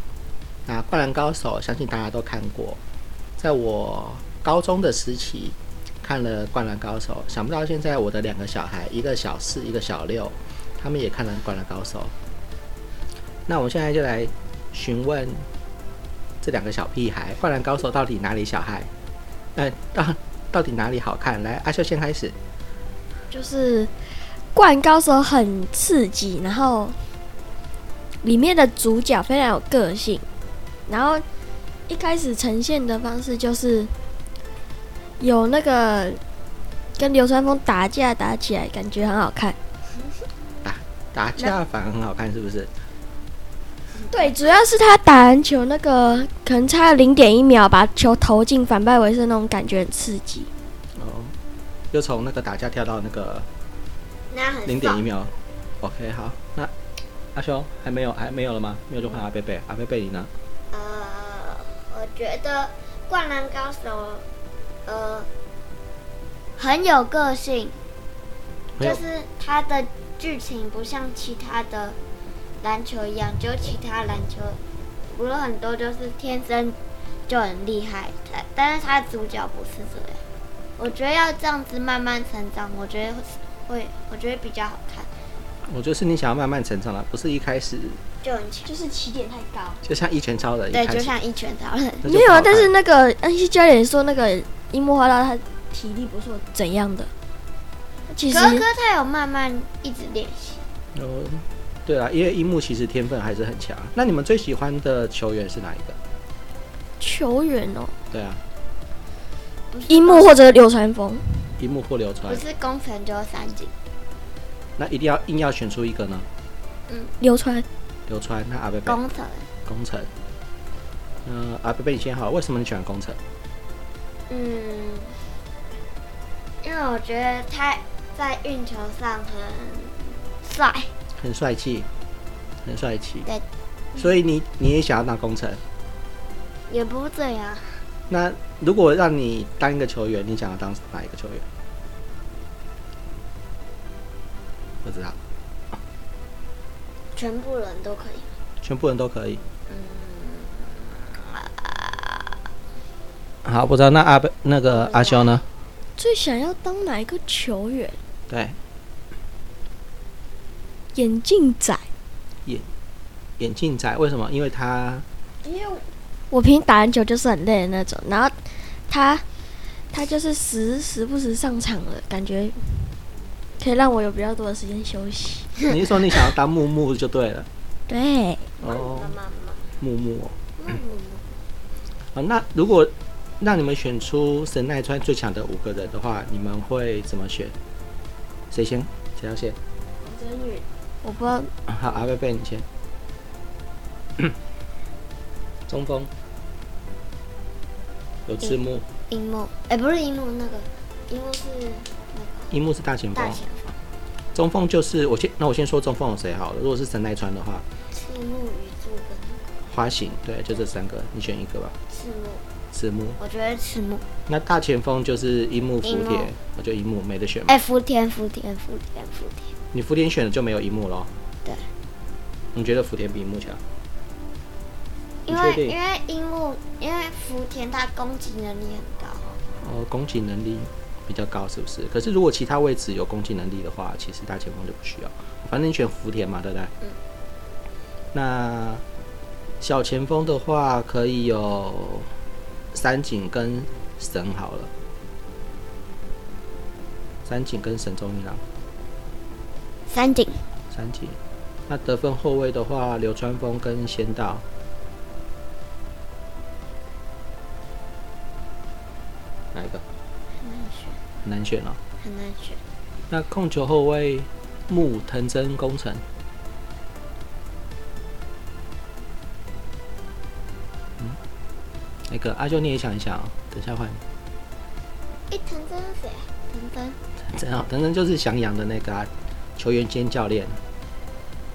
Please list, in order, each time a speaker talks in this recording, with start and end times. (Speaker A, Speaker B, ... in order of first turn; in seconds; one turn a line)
Speaker A: 0.7-2.8
Speaker A: 3.4-12.1
Speaker A: 13.5-15.5
Speaker A: 16.4-18.9
Speaker A: 19.5-22.4
Speaker B: 23.3-27.0
Speaker B: 28.2-30.2
Speaker B: 30.9-31.2
Speaker B: 31.9-33.9
Speaker B: 35.2-36.2
Speaker B: 37.0-39.6
Speaker A: 40.6-42.7
Speaker B: 44.1-50.5
Speaker A: 50.9-51.3
Speaker A: 51.9-53.5
Speaker C: 54.3-55.0
Speaker A: 54.6-56.7
Speaker A: 57.3-60.3
Speaker C: 60.7-64.2
Speaker C: 64.8-65.3
Speaker C: 66.6-67.8
Speaker C: 68.8-72.0
Speaker C: 72.6-80.2
Speaker C: 80.8-85.1
Speaker A: 85.6-88.0
Speaker C: 88.2-88.7
Speaker B: 88.7-89.8
Speaker A: 89.8-91.1
Speaker C: 90.7-92.0
Speaker A: 92.0-92.7
Speaker B: 92.0-97.1
Speaker B: 98.1-98.6
Speaker C: 98.3-100.7
Speaker A: 100.9-106.0
Speaker B: 107.0-107.9
Speaker A: 108.1-108.4
Speaker C: 109.7-110.4
Speaker B: 109.9-111.5
Speaker A: 111.6-112.4
Speaker C: 112.3-113.7
Speaker A: 114.8-116.3
Speaker C: 116.9-117.1
Speaker B: 117.2-117.7
Speaker A: 118.1-119.0
Speaker C: 118.8-119.5
Speaker A: 119.7-120.1
Speaker A: 121.2-123.2
Speaker C: 124.3-125.2
Speaker C: 126.6-130.9
Speaker A: 131.2-131.9
Speaker A: 132.6-133.3
Speaker A: 133.9-135.6
Speaker C: 136.7-137.8
Speaker A: 138.1-141.4
Speaker A: 144.8-145.2
Speaker C: 147.1-148.3
Speaker A: 148.6-149.4
Speaker C: 149.7-152.4
Speaker A: 153.4-155.4
Speaker C: 154.7-155.4
Speaker B: 156.0-158.0
Speaker A: 158.3-158.6
Speaker B: 160.9-161.8
Speaker A: 163.4-165.0
Speaker B: 165.4-168.3
Speaker B: 168.9-169.2
Speaker B: 169.9-173.0
Speaker B: 173.6-175.5
Speaker A: 175.7-177.5
Speaker B: 177.9-178.5
Speaker A: 178.6-179.1
Speaker C: 178.6-179.8
Speaker A: 179.8-180.3
Speaker C: 180.6-181.3
Speaker A: 182.1-187.6
Speaker A: 188.5-189.6
Speaker B: 190.0-190.6
Speaker C: 191.0-191.5
Speaker A: 191.7-192.7
Speaker A: 195.7-196.1
Speaker A: 198.2-198.8
Speaker C: 199.1-202.5
Speaker A: 202.5-203.4
Speaker C: 203.1-203.8
Speaker A: 204.3-207.6
Speaker C: 207.9-209.5
Speaker A: 209.7-211.7
Speaker C: 211.9-212.4
Speaker A: 212.7-213.2
Speaker C: 213.2-214.1
Speaker A: 214.3-217.6
Speaker C: 215.8-216.3
Speaker C: 217.5-219.5
Speaker A: 219.7-221.1
Speaker A: 222.5-223.6
Speaker C: 225.2-229.3
Speaker A: 225.3-225.7
Speaker A: 229.6-236.7
Speaker A: 238.1-238.8
Speaker A: 239.6-242.1
Speaker A: 242.7-244.7
Speaker A: 247.2-248.4
Speaker C: 249.9-250.4
Speaker A: 250.7-254.4
Speaker A: 259.5-259.8
Speaker C: 260.4-261.0
Speaker A: 261.2-261.8
Speaker C: 262.0-262.6
Speaker A: 263.1-266.0
Speaker A: 272.1-274.0
Speaker C: 275.3-277.0
Speaker A: 277.2-280.6